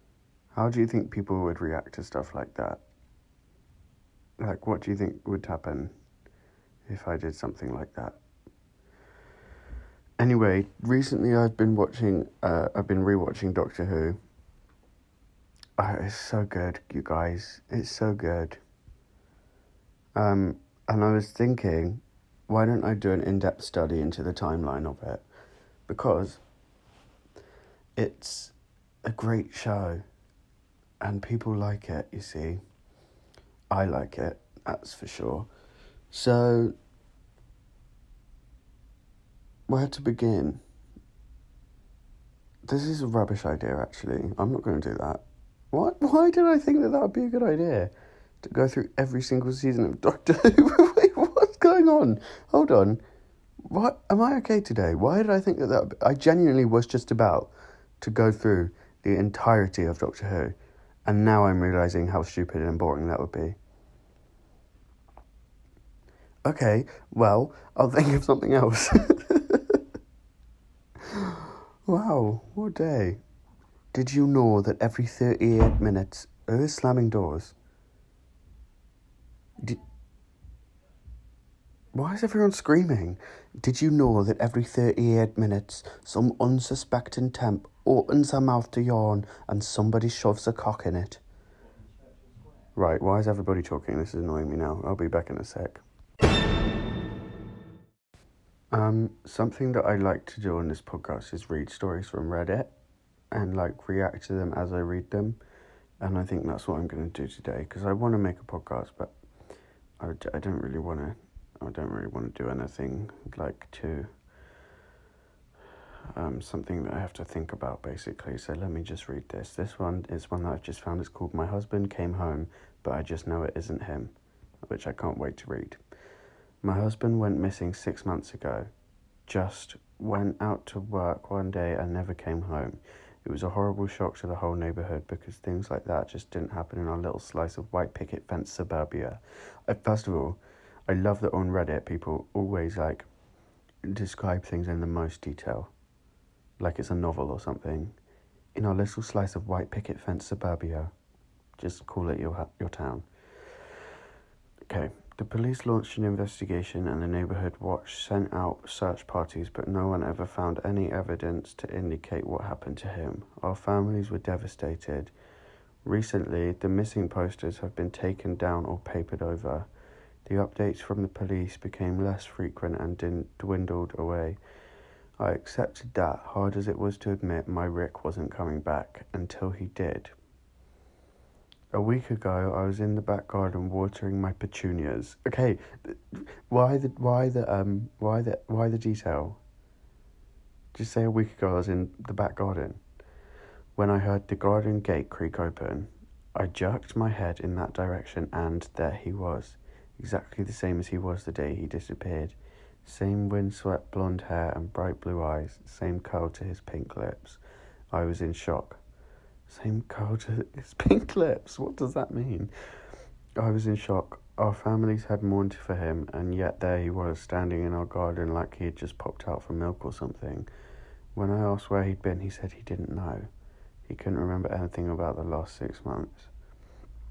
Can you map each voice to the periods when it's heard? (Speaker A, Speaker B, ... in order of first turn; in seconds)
Speaker A: 0.5-2.8, 4.4-5.9, 6.9-8.2, 10.2-14.2, 15.8-18.6, 20.1-25.2, 25.9-26.4, 28.0-30.0, 31.0-32.6, 33.7-35.5, 36.1-36.8, 39.7-40.6, 42.7-53.0, 53.7-60.5, 61.1-63.6, 66.5-69.8, 71.1-73.2, 73.9-77.5, 81.9-91.2, 92.8-95.8, 98.7-102.7, 103.3-105.4, 106.0-109.1, 110.0-114.1, 116.1-124.1, 124.7-125.8, 126.6-128.7, 129.3-143.1, 143.8-145.7, 146.6-148.0, 148.6-150.9, 151.6-153.1, 154.7-165.1, 165.8-169.7, 170.3-174.4, 175.2-180.1, 181.7-189.4, 190.7-192.8, 193.8-207.4, 207.9-208.8, 209.5-212.5, 213.4-220.5, 221.2-223.3, 223.9-226.3